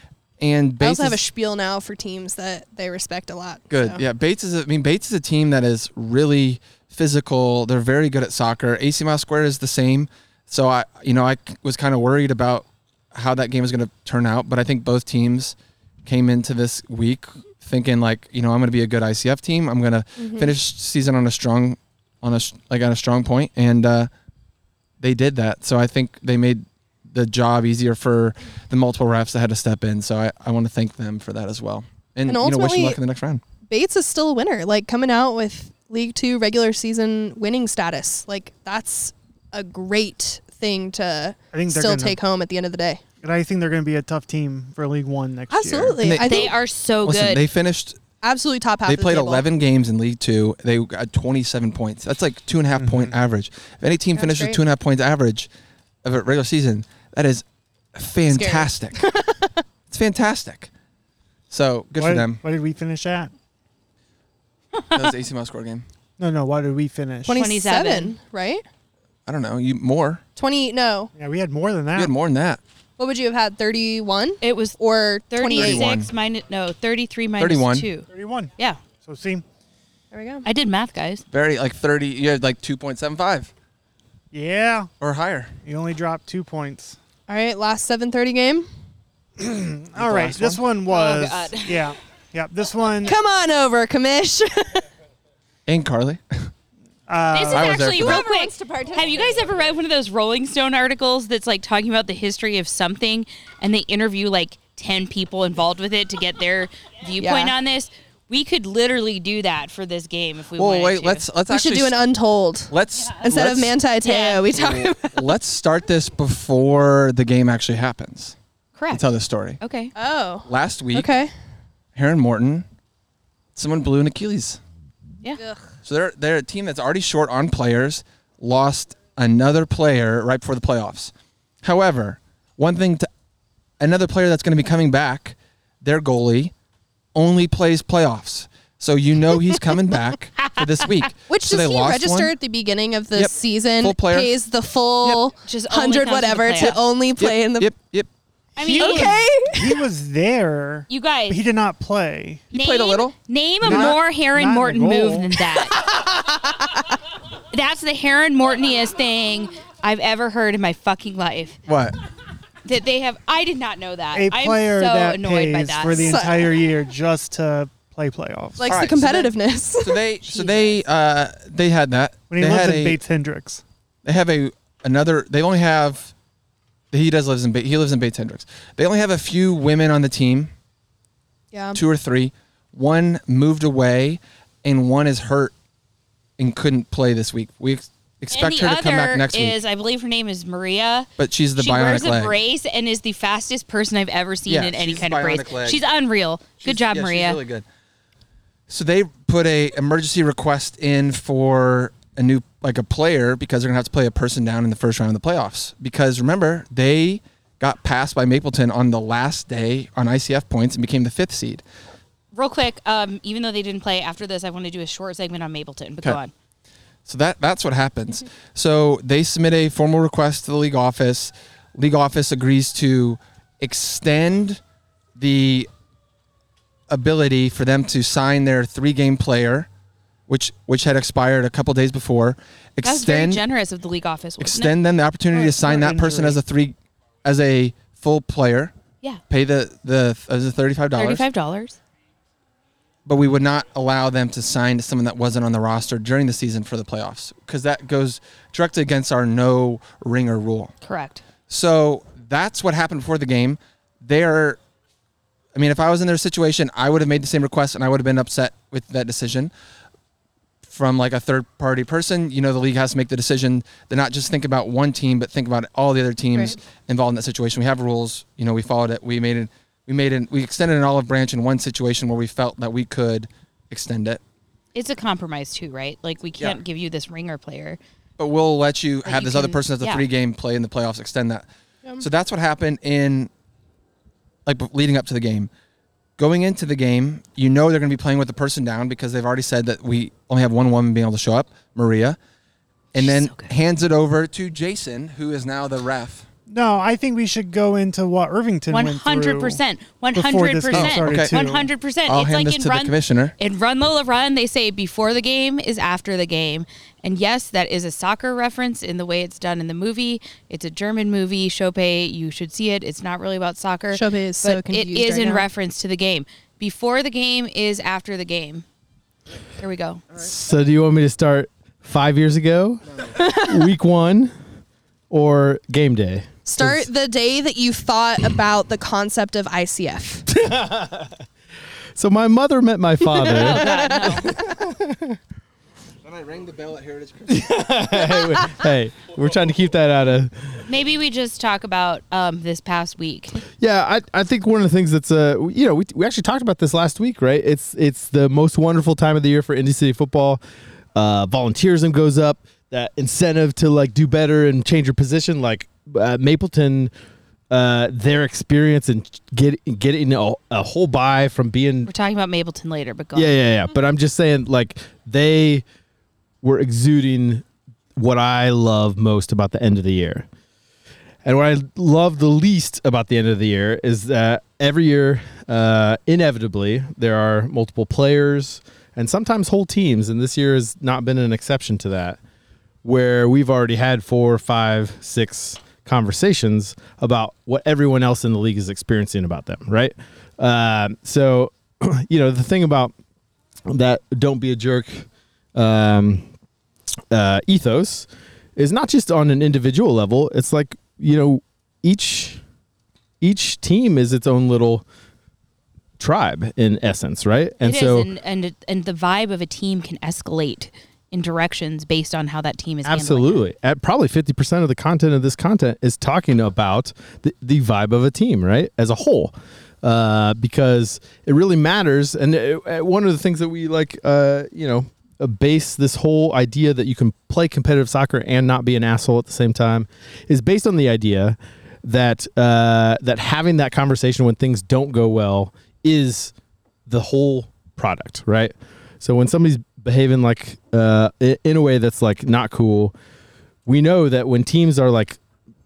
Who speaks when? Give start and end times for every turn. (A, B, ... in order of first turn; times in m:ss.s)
0:00.4-0:01.2 A
0:00.8-0:04.0 B
0:03.7-0:24.1 A
0:20.2-0:20.5 B
0:25.0-0:33.4 A
0:32.3-0:33.0 B
0:33.7-0:43.0 B
0:41.5-0:42.2 C
0:43.2-0:46.0 C
0:45.5-0:46.5 B
0:46.0-0:48.0 A
0:46.2-0:47.4 D
0:48.2-0:49.5 B
0:48.9-0:55.5 A
0:52.8-0:53.1 C
0:54.2-0:54.6 B
0:56.0-0:59.0 A
0:58.3-0:59.5 B
0:59.9-1:00.7 A
1:01.5-1:02.4 A
1:02.0-1:03.3 C
1:04.9-1:05.8 A
1:06.2-1:07.4 C
1:07.3-1:08.6 B
1:07.3-1:08.2 D
1:09.3-1:10.2 A
1:10.4-1:11.1 B
1:11.2-1:12.1 C
1:12.0-1:12.6 A
1:13.0-1:15.8 B
1:14.4-1:14.8 D
1:15.3-1:18.8 D
1:15.5-1:16.1 A
1:17.4-1:17.9 A
1:18.1-1:18.5 C
1:19.0-1:19.4 C
1:20.1-1:20.5 B
1:20.5-1:21.2 D
1:21.3-1:23.5 A
1:24.3-1:24.9 C
1:25.0-1:25.5 A
1:25.6-1:27.0 C
1:27.3-1:28.7 B
1:29.4-1:33.2 C
1:30.0-1:30.6 A
1:30.9-1:31.9 D
1:33.0-1:34.8 B
1:35.7-1:36.5 A
1:37.1-1:37.8 C
1:37.3-1:51.2 D
1:37.5-1:38.2 A
1:37.9-1:39.4 B
1:47.2-1:47.5 B
1:50.6-1:52.0 A
1:51.5-1:55.2 B
1:52.7-1:53.7 A
1:54.0-1:54.5 D
1:54.5-1:58.4 A
1:58.8-1:59.0 D
1:58.9-1:59.6 A
1:59.6-1:59.9 D
2:00.0-2:01.3 B
2:00.5-2:01.1 A
2:02.0-2:02.7 A
2:03.6-2:04.6 A
2:05.8-2:11.1 A
2:11.6-2:13.1 A
2:13.8-2:16.5 A
2:17.2-2:22.3 A
2:21.3-2:27.7 B
2:23.2-2:24.3 A
2:25.4-2:26.8 D
2:26.6-2:28.1 A
2:28.6-2:29.2 D
2:28.6-2:32.4 C
2:28.8-2:29.8 B
2:30.9-2:31.4 D
2:32.5-2:34.0 A
2:32.5-2:35.8 D
2:33.6-2:35.4 C
2:35.8-2:36.9 B
2:37.5-2:41.6 D
2:41.7-2:42.0 A
2:42.7-2:46.2 D
2:44.1-2:48.9 C
2:46.0-2:46.4 B
2:48.6-2:50.0 B
2:48.7-2:53.0 A
2:50.2-2:50.8 D
2:52.3-2:53.6 C
2:54.0-2:56.1 A
2:56.9-3:00.5 A
3:01.5-3:01.8 B
3:01.8-3:05.5 A
3:06.4-3:09.6 A
3:08.3-3:17.4 D
3:11.2-3:12.4 A
3:14.5-3:15.8 A
3:16.6-3:17.7 A
3:18.7-3:31.6 A
3:32.3-3:36.3 D
3:37.1-3:44.6 A
3:45.2-3:45.7 A
3:46.9-3:49.7 A
3:50.3-3:53.4 A
3:52.8-3:54.7 D
3:54.4-3:58.7 A
3:55.3-3:56.4 C
3:59.3-4:01.2 A
4:01.0-4:01.8 D
4:03.1-4:10.7 A
4:10.8-4:11.2 D
4:11.5-4:14.6 A
4:15.5-4:19.5 A
4:20.6-4:34.2 A
4:34.8-4:37.8 D
4:38.2-4:41.5 A
4:39.1-4:40.0 D
4:42.0-4:43.3 A
4:44.5-4:45.5 A
4:46.2-4:52.2 A
4:52.9-4:56.3 A
4:53.0-4:53.5 D
4:56.5-4:59.6 C
4:58.7-5:18.6 D
5:00.2-5:01.7 C
5:00.7-5:01.3 A
5:02.1-5:03.4 A
5:13.9-5:15.5 B
5:19.6-5:20.0 D
5:20.1-5:24.3 E
5:25.1-5:26.9 E
5:26.5-5:30.3 B
5:30.3-5:31.2 E
5:32.0-5:33.8 E
5:33.2-5:34.3 D
5:33.6-5:34.2 B
5:34.4-5:35.2 E
5:36.0-5:37.7 A
5:37.3-5:40.3 E
5:40.7-5:43.4 D
5:43.6-5:50.4 E
5:51.0-5:56.9 E
5:57.5-6:01.9 E
6:01.9-6:03.4 D
6:03.2-6:05.6 E
6:06.4-6:07.4 E
6:08.0-6:10.3 E
6:11.2-6:22.2 E
6:22.8-6:32.9 E
6:33.7-6:36.2 E
6:37.1-6:42.4 E
6:43.2-6:44.8 E
6:46.0-6:48.1 E
6:47.6-6:53.4 D
6:52.8-7:16.3 E
7:16.9-7:22.9 E
7:23.7-7:25.2 E